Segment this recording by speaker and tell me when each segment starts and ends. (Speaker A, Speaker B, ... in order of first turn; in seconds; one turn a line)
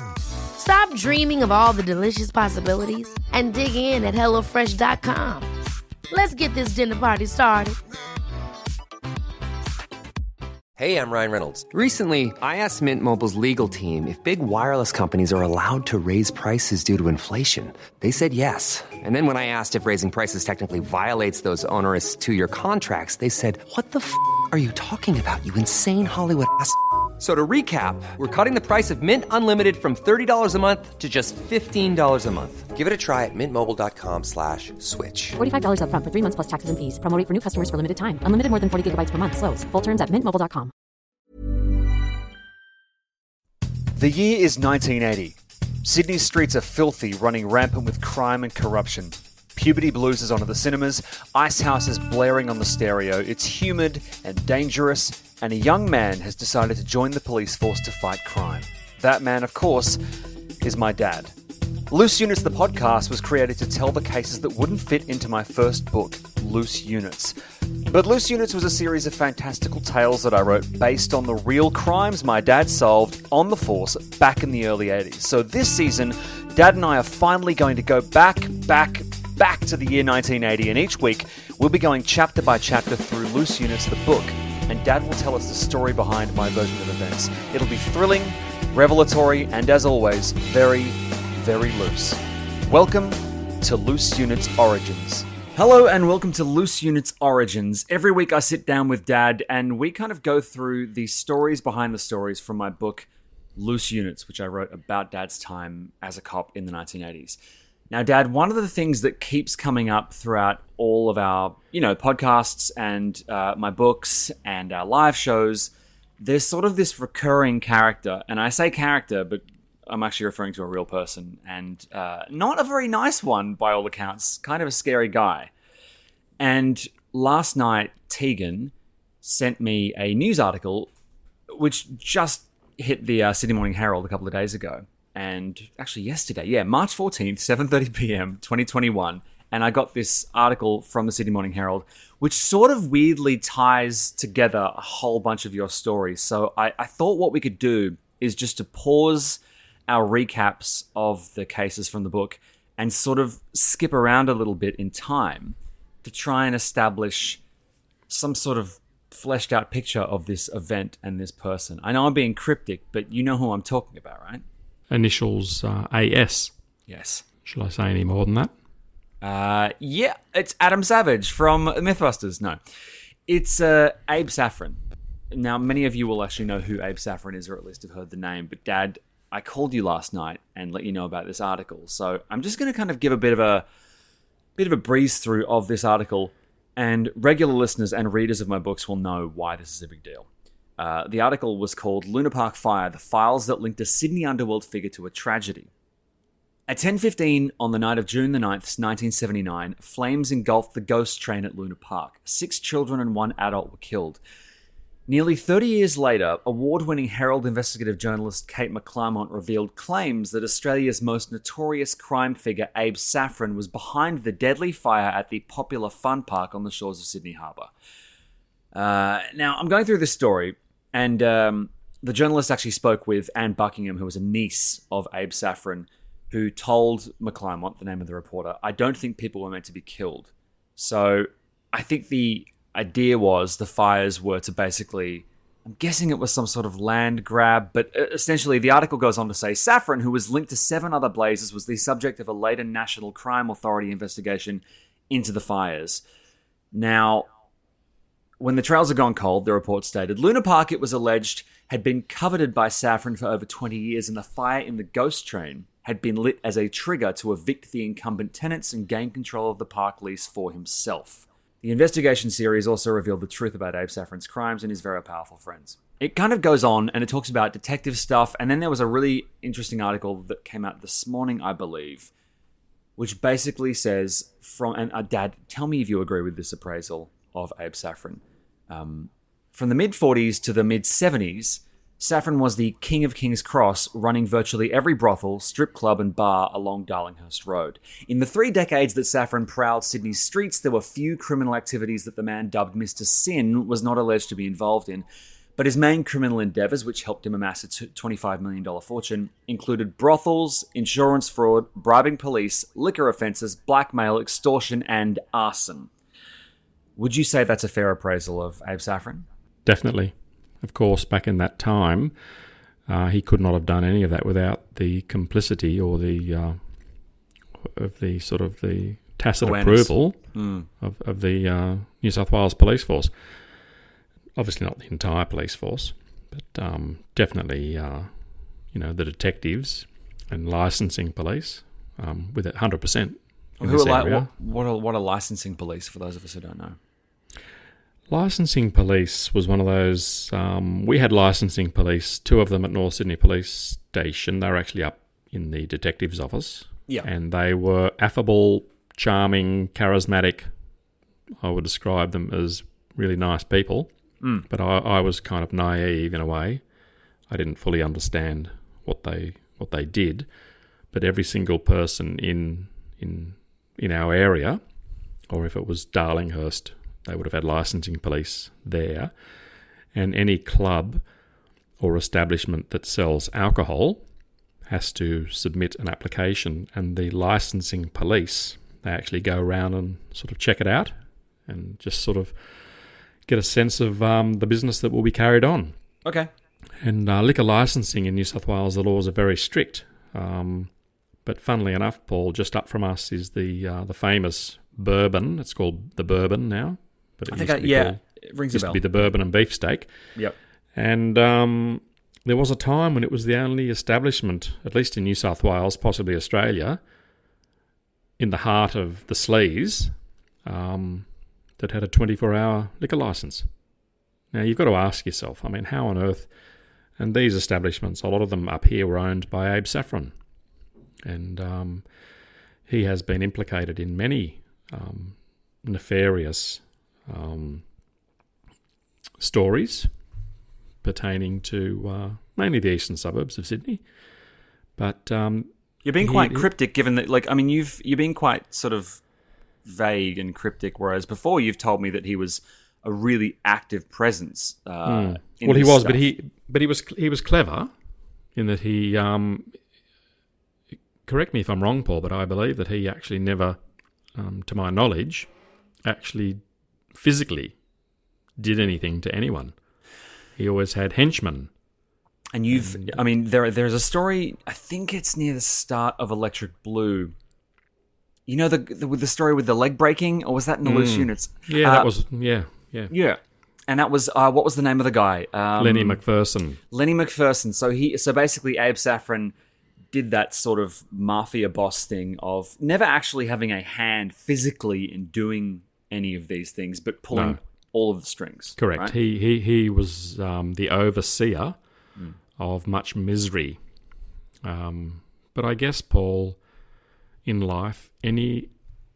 Speaker A: 0.6-5.5
Speaker A: 6.1-7.8
Speaker B: 10.8-11.7
Speaker C: 11.7-32.8
Speaker B: 32.8-35.4
Speaker D: 35.4-40.7
Speaker E: 44.0-60.0
Speaker E: 60.6-61.3
Speaker E: 61.9-107.4
Speaker E: 107.9-125.5
Speaker E: 126.4-128.7
Speaker E: 129.2-130.9
Speaker E: 131.5-157.4
Speaker E: 158.1-164.4
Speaker F: 164.9-166.5
Speaker E: 166.9-167.2
Speaker F: 167.4-168.5
Speaker E: 169.2-172.6
Speaker E: 173.3-174.8
Speaker E: 175.3-183.7
Speaker E: 184.6-190.3
Speaker E: 190.8-195.7
Speaker E: 196.7-204.2
Speaker E: 205.1-217.7
Speaker E: 218.7-246.0
Speaker E: 246.7-247.3
Speaker E: 248.4-272.1
Speaker E: 273.0-295.1
Speaker E: 295.6-305.9
Speaker E: 307.0-309.3
Speaker F: 309.7-312.1
Speaker F: 312.9-316.6
Speaker F: 317.7-320.2
Speaker E: 319.4-320.7
Speaker F: 320.8-323.1
Speaker F: 324.4-328.1
Speaker F: 328.7-334.3
Speaker E: 333.6-336.8
Speaker F: 338.1-350.5
Speaker F: 351.4-353.9
Speaker F: 354.5-356.6
Speaker F: 357.3-360.3
Speaker F: 360.9-364.6
Speaker F: 365.3-369.1
Speaker F: 369.9-371.0
Speaker F: 371.8-374.0
Speaker F: 374.7-382.4
Speaker F: 383.3-385.8
Speaker E: 386.1-386.3
Speaker F: 386.8-390.7
Speaker F: 391.2-398.0
Speaker E: 397.3-399.1
Speaker F: 398.5-399.9
Speaker F: 400.8-406.8
Speaker F: 408.2-411.1
Speaker F: 411.6-413.5
Speaker F: 414.3-416.3
Speaker F: 417.0-420.1
Speaker F: 421.0-421.9
Speaker F: 422.7-427.6
Speaker F: 429.2-429.9
Speaker F: 430.8-433.8
Speaker F: 434.8-436.5
Speaker E: 435.8-439.0
Speaker E: 439.6-446.0
Speaker F: 444.9-447.7
Speaker F: 448.4-449.6
Speaker F: 451.1-453.6
Speaker F: 454.1-455.3
Speaker F: 455.9-456.4
Speaker F: 456.9-457.6
Speaker F: 458.4-459.6
Speaker F: 460.4-461.5
Speaker E: 462.3-467.1
Speaker F: 462.5-463.0
Speaker E: 468.3-471.9
Speaker F: 470.6-472.9
Speaker E: 472.9-476.0
Speaker F: 475.6-476.6
Speaker E: 476.7-479.3
Speaker E: 479.9-488.9
Speaker F: 487.1-487.4
Speaker F: 488.6-491.6
Speaker F: 492.4-493.6
Speaker F: 494.4-496.4
Speaker F: 497.2-498.5